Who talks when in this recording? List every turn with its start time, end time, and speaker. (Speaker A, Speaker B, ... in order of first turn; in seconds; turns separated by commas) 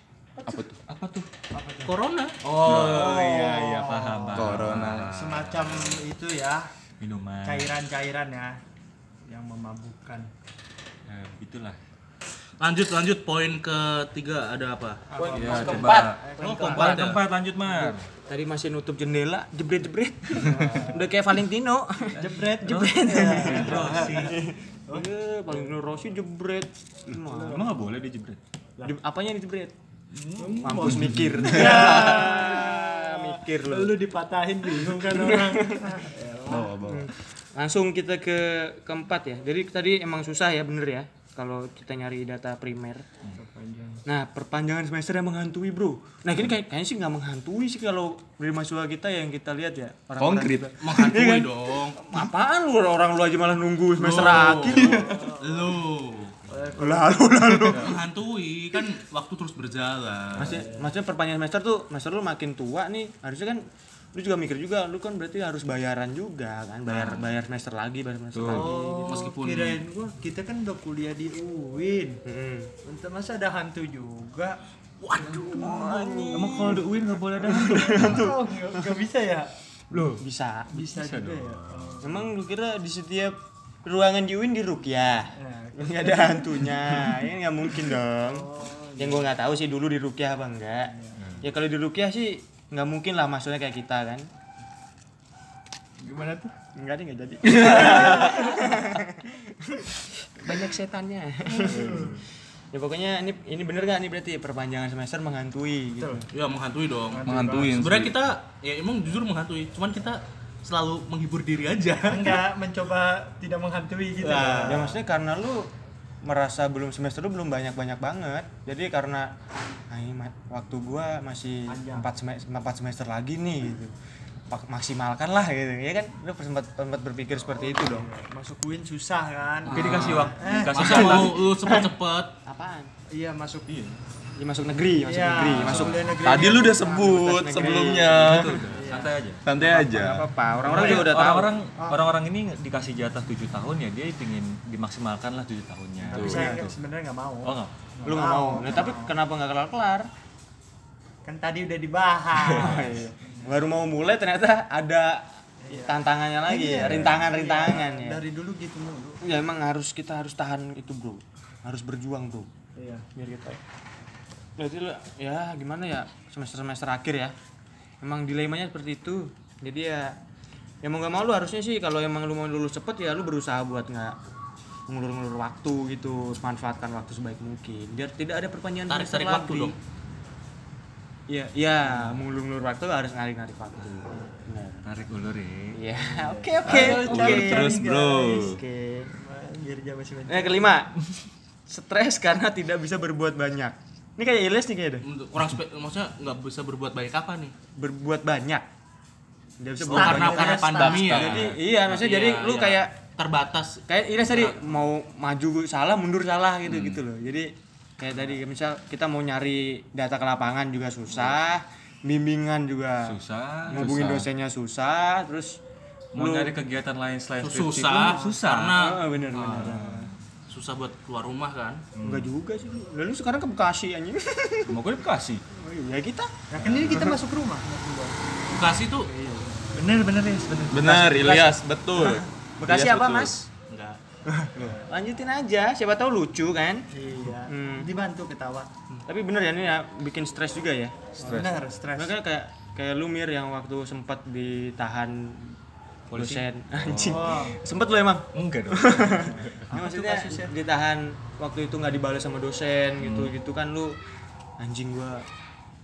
Speaker A: 0.5-0.8, Speaker B: 0.9-1.3, Speaker C: 1.5-2.0, Speaker D: 1.9-3.3, Speaker A: 2.6-3.3, Speaker B: 2.7-6.0, Speaker C: 2.9-6.7, Speaker A: 4.3-5.1, Speaker B: 7.0-7.8, Speaker C: 7.4-8.6, Speaker C: 9.3-10.3, Speaker B: 11.1-11.8, Speaker D: 12.6-15.0, Speaker C: 15.1-17.0, Speaker E: 15.1-17.0, Speaker B: 15.3-18.1, Speaker D: 16.4-17.2, Speaker E: 17.7-27.6, Speaker C: 20.4-21.0, Speaker B: 22.1-24.4, Speaker C: 22.2-25.7, Speaker C: 27.1-27.9, Speaker B: 27.5-28.4, Speaker E: 28.8-29.7, Speaker C: 30.2-36.9, Speaker B: 30.3-31.8, Speaker E: 30.6-34.0, Speaker E: 34.9-36.0, Speaker E: 36.9-43.0, Speaker C: 43.4-44.0, Speaker E: 44.1-55.3, Speaker A: 50.2-50.8, Speaker D: 50.8-52.0, Speaker D: 54.0-56.4, Speaker C: 54.5-55.8, Speaker C: 56.5-57.8, Speaker E: 56.8-57.9, Speaker D: 57.6-60.6, Speaker E: 60.4-63.6, Speaker C: 60.4-60.9, Speaker E: 64.2-69.3, Speaker B: 68.3-68.7, Speaker C: 68.5-72.2, Speaker D: 69.1-69.8, Speaker E: 72.2-72.7, Speaker C: 72.8-74.6, Speaker C: 75.1-76.9, Speaker E: 75.5-76.8, Speaker B: 76.3-78.2, Speaker E: 77.4-78.8, Speaker C: 77.6-79.5, Speaker E: 79.9-80.7, Speaker C: 80.7-82.3, Speaker B: 80.8-82.0, Speaker E: 82.0-88.5, Speaker C: 85.4-86.8, Speaker C: 88.3-89.3, Speaker E: 89.0-94.3, Speaker C: 91.0-91.2, Speaker B: 91.2-91.5, Speaker B: 96.0-96.5, Speaker E: 96.8-102.1, Speaker A: 97.5-98.3, Speaker C: 101.5-102.2, Speaker E: 102.7-106.3, Speaker D: 106.3-112.5, Speaker C: 107.0-107.8, Speaker A: 107.2-108.2, Speaker C: 112.1-115.0, Speaker D: 114.2-114.9, Speaker E: 114.6-115.7, Speaker E: 116.2-119.3, Speaker E: 119.9-123.9, Speaker C: 121.7-122.1, Speaker E: 124.5-128.1, Speaker C: 127.4-131.3, Speaker D: 129.7-132.3, Speaker B: 129.7-131.4, Speaker E: 129.8-130.3, Speaker E: 131.0-131.9, Speaker E: 132.4-132.9, Speaker C: 133.1-133.8, Speaker B: 133.7-134.0, Speaker E: 134.4-138.6, Speaker C: 135.0-136.9, Speaker B: 135.5-136.2, Speaker A: 136.2-138.7, Speaker B: 138.3-139.4, Speaker C: 138.7-139.2, Speaker A: 139.4-140.3, Speaker E: 139.6-141.5, Speaker C: 140.6-141.2, Speaker B: 140.7-146.8, Speaker C: 141.8-142.1, Speaker C: 146.0-149.1, Speaker A: 146.1-146.6, Speaker B: 147.4-147.7, Speaker E: 148.1-150.1, Speaker C: 151.2-153.4, Speaker E: 152.5-158.2, Speaker C: 155.6-159.2, Speaker A: 156.9-157.1, Speaker E: 159.2-162.5, Speaker C: 162.8-163.1, Speaker E: 163.2-163.6, Speaker E: 164.6-167.3, Speaker E: 168.0-170.1, Speaker E: 170.8-174.2, Speaker E: 174.9-179.7, Speaker D: 178.9-179.8, Speaker E: 181.3-184.8, Speaker B: 184.8-185.8, Speaker E: 185.7-189.1, Speaker C: 185.9-188.6, Speaker A: 186.7-188.6, Speaker C: 189.1-190.8, Speaker E: 190.3-191.0, Speaker E: 191.7-195.1, Speaker D: 195.0-197.6, Speaker E: 197.8-198.7, Speaker E: 199.6-202.9, Speaker C: 199.8-201.4, Speaker D: 199.9-203.8, Speaker E: 203.9-213.2, Speaker B: 213.1-214.3, Speaker E: 213.7-215.6, Speaker E: 216.1-216.5, Speaker B: 216.1-218.8, Speaker D: 217.4-219.0, Speaker C: 218.0-218.5, Speaker E: 218.8-219.9, Speaker B: 219.3-220.1, Speaker C: 219.4-220.1, Speaker D: 220.5-221.8, Speaker B: 221.9-222.3, Speaker E: 222.0-224.7, Speaker B: 224.7-225.4, Speaker E: 225.5-226.3, Speaker C: 226.5-228.2, Speaker B: 226.6-227.0, Speaker E: 226.9-227.2, Speaker D: 228.5-229.1, Speaker E: 229.1-229.6, Speaker B: 229.7-231.0, Speaker A: 230.7-233.3, Speaker E: 230.8-233.5, Speaker D: 233.5-234.0, Speaker E: 234.3-236.8, Speaker A: 234.6-234.8, Speaker C: 236.9-238.7, Speaker E: 237.5-237.9, Speaker E: 239.1-241.2, Speaker C: 241.2-242.2, Speaker B: 241.2-241.6, Speaker E: 242.0-245.5, Speaker B: 246.1-247.3, Speaker E: 246.1-253.9, Speaker C: 247.1-247.6, Speaker B: 248.3-249.6, Speaker C: 249.1-250.6, Speaker B: 253.0-253.3, Speaker E: 254.6-255.2